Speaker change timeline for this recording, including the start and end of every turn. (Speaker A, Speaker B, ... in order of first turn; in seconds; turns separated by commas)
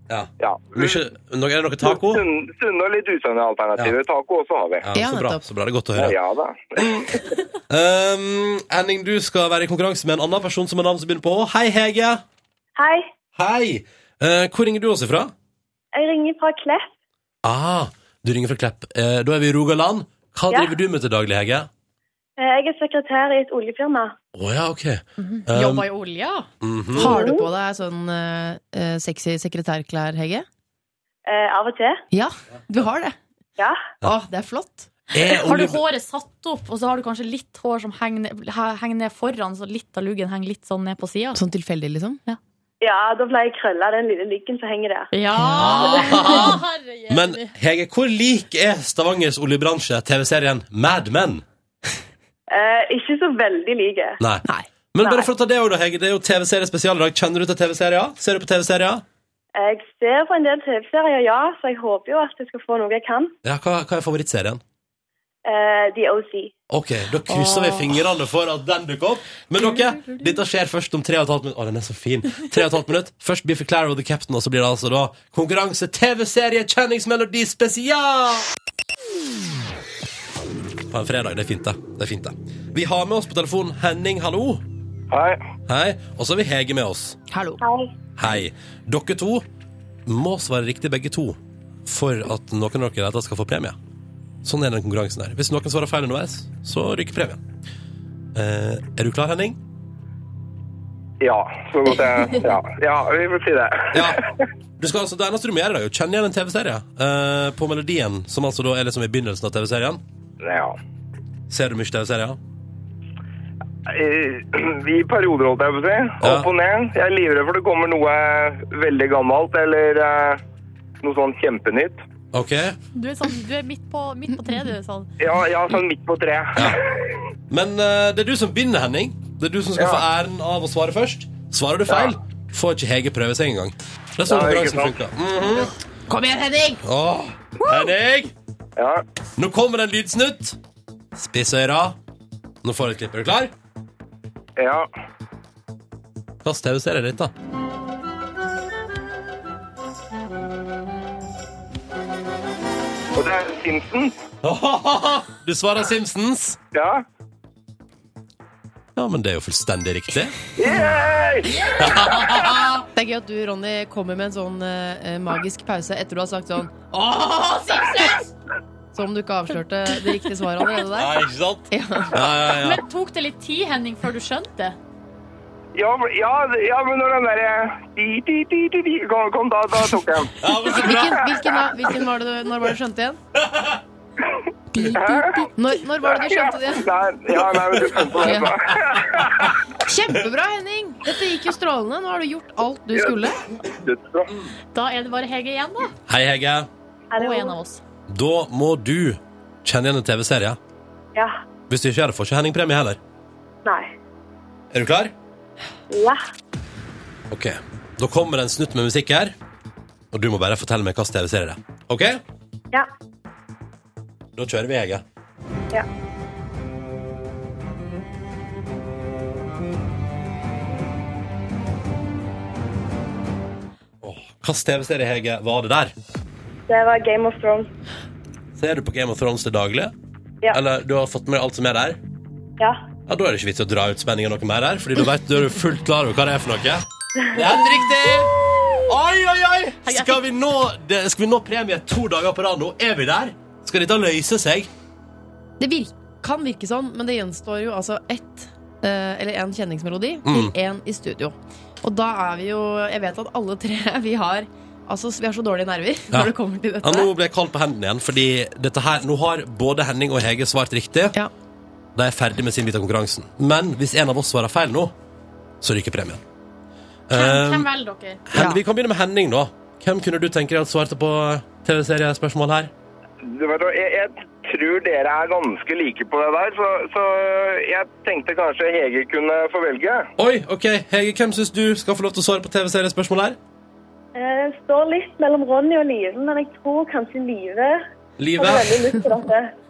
Speaker A: 0.1-2.2, Speaker B: 0.4-1.0, Speaker B: 1.8-4.8, Speaker A: 4.8-6.2, Speaker C: 4.9-5.5, Speaker B: 6.0-7.3, Speaker A: 6.8-7.2, Speaker A: 7.7-12.2, Speaker D: 12.8-13.1, Speaker A: 13.3-15.3, Speaker D: 15.9-16.9, Speaker A: 17.4-21.7, Speaker D: 22.4-24.1, Speaker A: 24.4-25.9, Speaker E: 25.2-26.5, Speaker A: 26.6-27.2, Speaker C: 26.9-30.5, Speaker D: 27.0-27.5, Speaker D: 31.3-32.0, Speaker C: 32.1-33.2, Speaker D: 33.6-33.9, Speaker C: 34.0-34.9, Speaker A: 35.1-35.8, Speaker E: 35.1-41.4, Speaker C: 41.3-42.2, Speaker D: 42.8-45.1, Speaker E: 45.1-47.5, Speaker C: 45.4-46.5, Speaker A: 45.6-51.4, Speaker D: 52.5-54.2, Speaker A: 54.2-59.0, Speaker D: 55.0-55.3, Speaker D: 59.6-63.4, Speaker A: 63.4-64.6, Speaker D: 65.5-66.5, Speaker A: 66.7-78.5, Speaker C: 67.3-67.8, Speaker A: 80.9-84.6, Speaker B: 85.1-85.4, Speaker A: 85.7-87.2, Speaker C: 87.3-87.6, Speaker D: 87.6-87.9, Speaker A: 88.2-89.5, Speaker A: 90.1-93.8, Speaker A: 94.4-97.4, Speaker A: 98.3-99.6, Speaker B: 101.2-104.2, Speaker A: 103.9-104.2, Speaker A: 104.8-110.0, Speaker B: 110.4-110.8, Speaker A: 111.5-112.4, Speaker B: 113.9-120.4, Speaker A: 116.2-116.5, Speaker B: 121.0-122.0, Speaker A: 122.3-122.8, Speaker E: 123.0-125.1, Speaker B: 125.2-127.2, Speaker A: 126.6-126.8, Speaker A: 127.5-135.7, Speaker B: 129.8-130.0, Speaker B: 131.9-132.1, Speaker B: 134.3-134.9, Speaker C: 136.1-136.8, Speaker A: 136.8-138.3, Speaker B: 138.8-139.0, Speaker A: 139.4-140.6, Speaker A: 141.2-142.0, Speaker A: 142.6-143.5, Speaker B: 144.6-144.9, Speaker A: 146.4-147.3, Speaker B: 153.1-154.2, Speaker A: 154.4-156.6, Speaker B: 156.7-157.0, Speaker A: 159.0-160.4, Speaker B: 160.6-161.9, Speaker A: 161.8-162.9, Speaker C: 162.9-168.2, Speaker C: 168.9-172.3, Speaker A: 171.0-172.8, Speaker E: 172.4-174.8, Speaker B: 175.8-180.5, Speaker A: 180.4-181.4, Speaker C: 180.6-183.2, Speaker A: 183.5-183.8, Speaker C: 184.7-186.9, Speaker B: 184.9-185.3, Speaker B: 186.1-189.6, Speaker C: 188.2-188.6, Speaker C: 189.8-193.4, Speaker B: 193.8-194.3, Speaker E: 194.7-195.9, Speaker A: 196.1-196.7, Speaker D: 197.1-197.6, Speaker E: 197.2-197.8, Speaker A: 198.1-200.6, Speaker A: 201.7-203.0, Speaker A: 204.7-205.1, Speaker D: 205.9-206.2, Speaker A: 207.3-209.3, Speaker A: 210.1-212.2, Speaker A: 214.4-215.0, Speaker A: 224.0-225.9, Speaker D: 226.7-227.7, Speaker A: 228.6-229.9, Speaker A: 230.5-232.0, Speaker A: 233.1-238.3, Speaker A: 238.9-244.7, Speaker E: 239.8-240.2, Speaker C: 245.6-257.1, Speaker A: 250.3-250.5, Speaker A: 256.1-261.2, Speaker A: 262.0-264.9, Speaker A: 265.6-266.2, Speaker A: 267.1-267.7, Speaker E: 267.1-268.2, Speaker A: 268.3-272.7, Speaker C: 268.3-268.6, Speaker B: 273.2-280.1, Speaker A: 280.2-283.4, Speaker D: 284.1-287.8, Speaker A: 288.2-288.9, Speaker D: 288.4-289.5